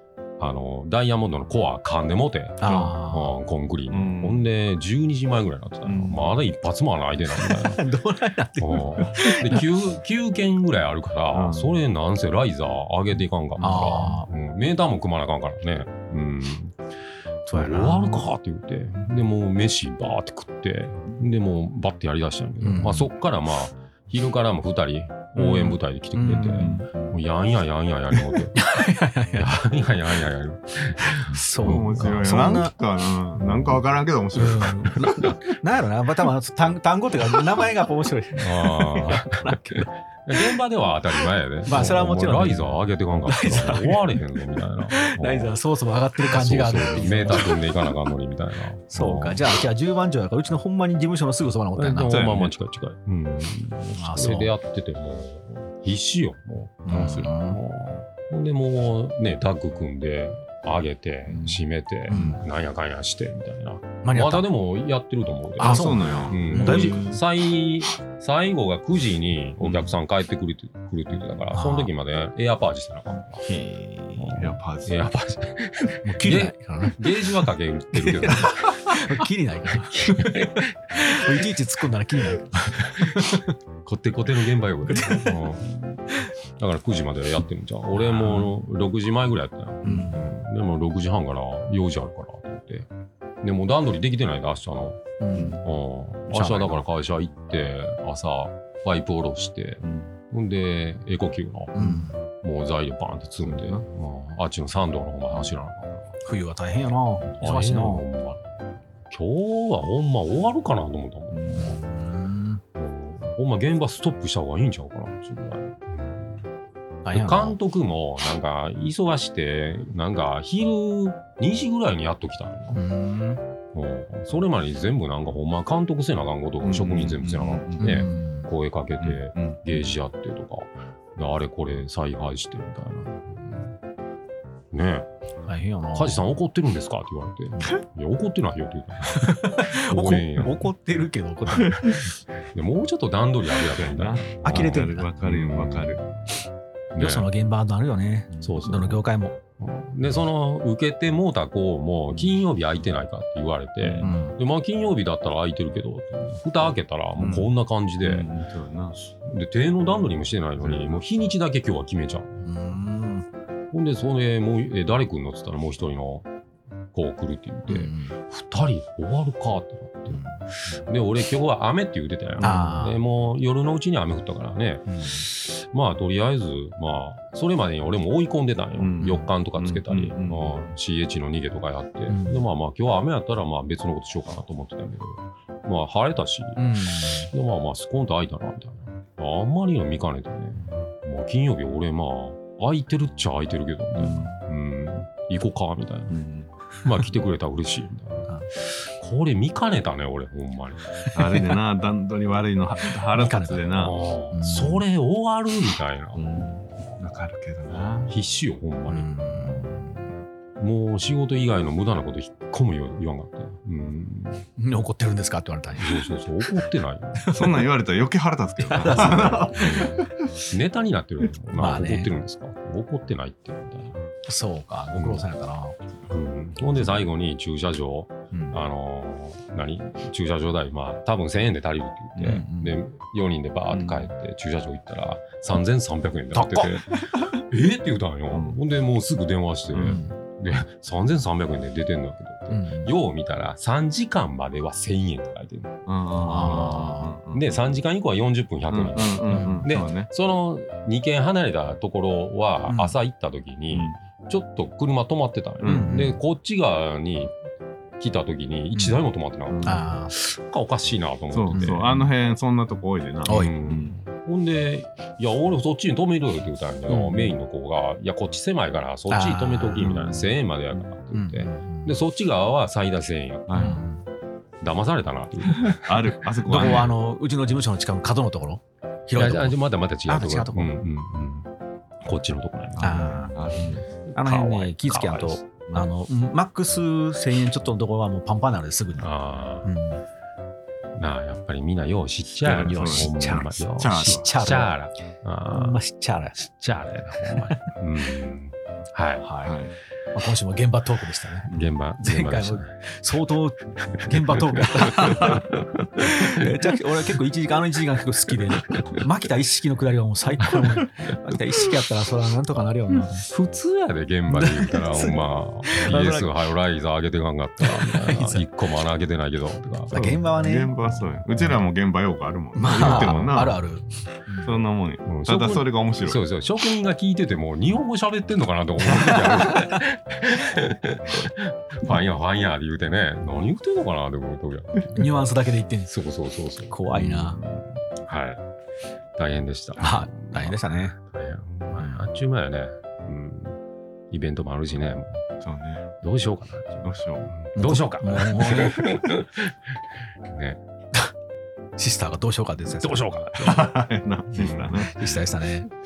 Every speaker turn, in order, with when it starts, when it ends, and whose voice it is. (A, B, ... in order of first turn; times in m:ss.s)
0:00.4-0:07.8 A
0:02.6-0:03.4 B
0:03.9-0:04.5 C
0:05.8-0:06.4 C
0:07.3-0:09.7 B
0:08.6-0:16.8 A
0:11.3-0:11.8 C
0:13.6-0:14.3 B
0:17.5-0:18.3 B
0:17.5-0:28.6 A
0:22.6-0:23.1 B
0:25.4-0:26.8 B
0:26.6-0:27.1 C
0:28.3-0:29.6 B
0:29.4-0:32.2 A
0:31.0-0:32.7 B
0:31.6-0:35.3 C
0:34.4-0:39.6 B
0:35.0-0:35.4 A
0:38.4-0:45.6 A
0:41.6-0:44.4 B
0:44.9-0:47.8 B
0:46.2-0:49.4 A
0:48.9-0:52.2 B
0:51.8-1:13.4 A
0:52.1-0:52.5 C
0:54.0-0:54.5 B
0:56.8-0:57.6 B
0:56.9-0:57.2 C
1:01.3-1:01.6 C
1:02.1-1:02.4 B
1:04.0-1:04.5 B
1:05.6-1:07.1 B
1:05.6-1:07.2 C
1:09.6-1:09.9 C
1:11.5-1:11.9 B
1:13.5-1:15.0 C
1:14.2-1:18.8 A
1:16.0-1:17.1 B
1:17.9-1:23.6 B
1:19.7-1:21.4 A
1:22.8-1:26.0 A
1:24.9-1:25.6 B
1:26.6-1:32.9 A
1:28.0-1:28.5 B
1:29.8-1:30.2 B
1:29.8-1:30.2 C
1:33.4-1:35.0 A
1:35.2-1:35.6 B
1:35.6-1:46.1 A
1:36.3-1:36.8 B
1:39.8-1:40.1 C
1:41.8-1:42.2 B
1:43.4-1:43.8 C
1:46.2-1:48.0 B
1:47.4-1:48.4 A
1:49.1-1:51.8 A
1:51.3-1:51.7 C
1:51.6-1:52.6 B
1:52.8-1:56.4 A
1:57.0-1:57.6 B
1:57.1-2:02.8 A
2:02.7-2:03.4 B
2:03.7-2:13.8 A
2:06.6-2:08.1 C
2:07.8-2:08.5 B
2:09.0-2:09.8 C
2:14.7-2:15.1 A
2:15.5-2:16.3 B
2:15.9-2:20.7 A
2:19.1-2:21.8 B
2:21.6-2:22.0 C
2:22.4-2:26.1 A
2:23.7-2:26.0 C
2:24.4-2:25.1 B
2:27.0-2:27.3 A
2:27.0-2:29.4 B
2:28.4-2:29.0 A
2:29.6-2:38.3 A
2:32.1-2:32.4 C
2:33.8-2:34.2 C
2:34.0-2:34.4 B
2:37.2-2:37.5 C
2:38.0-2:39.0 C
2:39.1-2:42.4 A
2:40.6-2:41.0 C
2:42.4-2:43.3 B
2:43.7-2:46.3 A
2:46.9-3:16.2 A
2:47.7-2:48.2 B
2:50.1-2:50.4 B
2:52.4-2:53.0 B
2:54.9-2:55.2 B
2:58.8-3:00.7 C
3:02.1-3:02.4 B
3:06.6-3:07.3 B
3:14.0-3:14.4 C
3:16.1-3:16.5 C
3:16.8-3:20.9 A
3:21.0-3:21.4 B
3:21.1-3:24.0 C
3:23.1-3:23.7 B
3:23.7-3:26.2 A
3:24.3-3:24.8 B
3:26.2-3:28.1 C
3:27.7-3:29.7 A
3:28.9-3:30.0 B
3:30.6-3:34.4 A
3:34.6-3:36.1 B
3:35.8-3:37.3 A
3:37.2-3:37.6 B
3:37.3-3:40.1 C
3:38.6-3:39.8 B
3:38.8-3:44.0 A
3:41.5-3:42.1 B
3:44.3-3:45.8 B
3:44.9-3:45.3 A
3:46.1-4:05.8 A
3:48.3-3:48.6 B
3:52.2-3:52.8 B
3:53.7-3:54.1 C
3:56.3-3:57.0 B
3:58.3-3:58.6 C
3:59.7-4:00.0 C
3:59.8-4:00.1 B
4:02.5-4:02.9 B
4:05.9-4:07.4 C
4:06.2-4:07.1 B
4:06.3-4:17.3 A
4:08.7-4:10.1 C
4:09.3-4:09.7 B
4:12.7-4:13.0 B
4:15.6-4:15.9 C
4:15.6-4:16.2 B
4:18.0-4:21.9 A
4:18.7-4:19.0 B
4:19.5-4:19.8 C
4:19.6-4:20.1 B
4:21.3-4:24.0 C
4:21.5-4:22.0 B
4:23.2-4:23.5 B
4:23.3-4:33.8 A
4:26.9-4:27.3 B
4:29.1-4:30.3 B
4:31.1-4:32.0 B
4:33.5-4:33.8 C
4:33.6-4:34.0 B
4:34.6-4:36.8 A
4:35.5-4:36.9 C
4:36.4-4:40.7 B
4:39.2-4:41.5 A
4:42.0-4:43.3 A
4:42.8-4:43.8 C
4:42.8-4:43.4 B
4:44.1-4:45.4 A
4:44.1-4:49.1 B
4:49.0-4:49.7 A
4:49.6-4:50.0 B
4:51.0-4:55.8 A
4:52.4-4:53.1 C
4:52.4-4:54.7 B
4:53.8-4:54.3 C
4:55.5-4:56.4 B
4:56.4-4:59.2 A
4:57.2-4:57.7 B
4:59.2-4:59.6 B
4:59.4-4:59.7 C
5:00.1-5:05.4 B
5:01.5-5:02.7 A
5:04.1-5:06.5 A
5:06.0-5:13.3 B
5:08.6-5:09.0 A
5:10.4-5:11.4 A
5:13.3-5:20.0 A
5:14.3-5:16.3 B
5:17.6-5:18.5 B
5:19.9-5:20.7 B
5:20.0-5:23.6 C
5:22.6-5:24.6 B
5:22.8-5:23.5 A
5:24.4-5:26.2 C
5:25.1-5:35.1 A
5:28.8-5:29.8 B
5:34.9-5:35.9 B
5:35.9-5:38.4 A
5:36.7-5:37.4 B
5:39.2-5:43.6 A
5:39.8-5:41.0 B
5:41.7-5:42.1 B
5:44.1-5:45.2 A
5:45.4-5:45.9 C
5:46.0-5:50.6 A
5:46.8-5:47.3 C
5:47.6-5:48.9 B
5:51.8-5:53.6 B
5:52.8-5:53.7 A
5:53.4-5:54.9 C
5:54.3-5:55.3 A
5:54.8-5:55.7 B